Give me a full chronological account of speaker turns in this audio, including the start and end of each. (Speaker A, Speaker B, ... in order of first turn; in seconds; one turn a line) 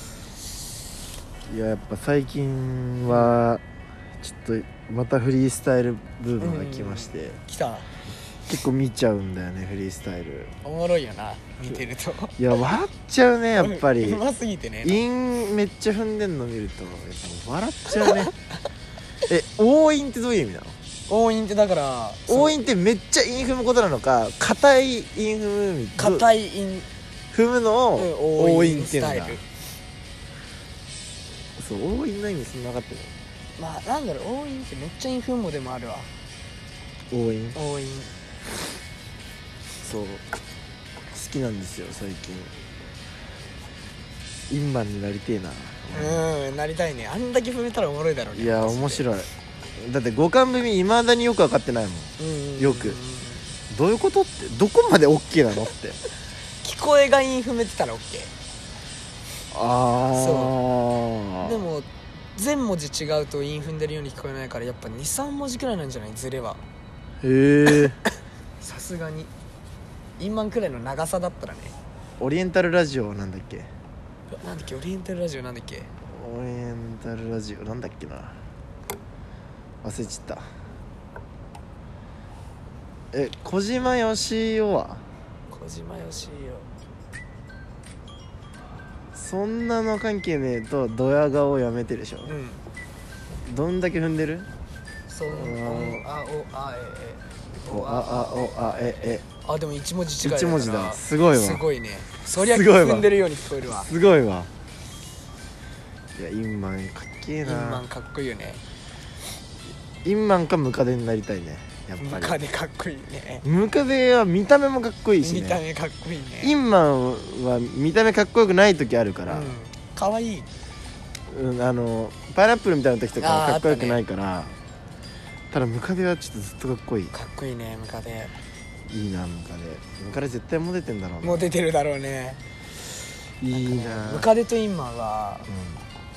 Speaker A: 1.5-3.6
Speaker B: 3.1-3.4
Speaker A: 4.2-7.4
Speaker B: 6.4-7.9
Speaker A: 8.5-10.5
Speaker B: 10.6-12.3
Speaker A: 12.4-14.2
Speaker B: 13.5-15.0
Speaker A: 14.8-18.3
Speaker B: 17.9-18.3
Speaker A: 19.3-20.8
Speaker B: 21.1-22.6
Speaker A: 22.3-26.3
Speaker B: 26.0-26.9
Speaker A: 27.3-29.4
Speaker B: 28.0-29.4
Speaker A: 31.6-33.1
Speaker B: 33.6-36.1
Speaker A: 37.1-37.6
Speaker B: 37.5-38.1
Speaker A: 39.8-40.2
Speaker A: 41.1-42.5
Speaker A: 44.5-46.2
Speaker B: 45.9-49.2
Speaker A: 48.3-49.3
Speaker A: 49.8-53.0
Speaker B: 52.2-53.5
Speaker A: 53.7-56.0
Speaker B: 56.6-58.3
Speaker A: 59.5-61.6
Speaker B: 60.1-60.5
Speaker B: 61.4-66.6
Speaker A: 67.2-68.0
Speaker B: 68.6-69.3
Speaker B: 70.2-71.8
Speaker A: 72.2-73.7
Speaker B: 74.3-75.9
Speaker A: 76.0-78.3
Speaker A: 79.8-80.4
Speaker A: 83.1-85.0
Speaker B: 85.5-86.7
Speaker A: 89.1-92.4
Speaker B: 92.2-92.6
Speaker A: 93.4-94.5
Speaker B: 95.1-103.9
Speaker A: 95.2-96.0
Speaker A: 97.7-99.2
Speaker A: 100.2-101.6
Speaker A: 102.3-103.1
Speaker A: 103.6-104.5
Speaker A: 106.1-107.8
Speaker B: 107.4-108.6
Speaker A: 110.0-112.4
Speaker B: 112.0-113.4
Speaker A: 113.4-115.6
Speaker B: 115.2-116.5
Speaker A: 116.4-119.5
Speaker B: 119.3-120.5
Speaker A: 121.3-124.5
Speaker B: 123.2-124.0
Speaker A: 125.5-127.1
Speaker B: 127.1-128.3
Speaker A: 128.9-131.5
Speaker B: 131.2-132.4
Speaker A: 133.4-134.3
Speaker B: 133.5-135.5
Speaker A: 135.4-135.8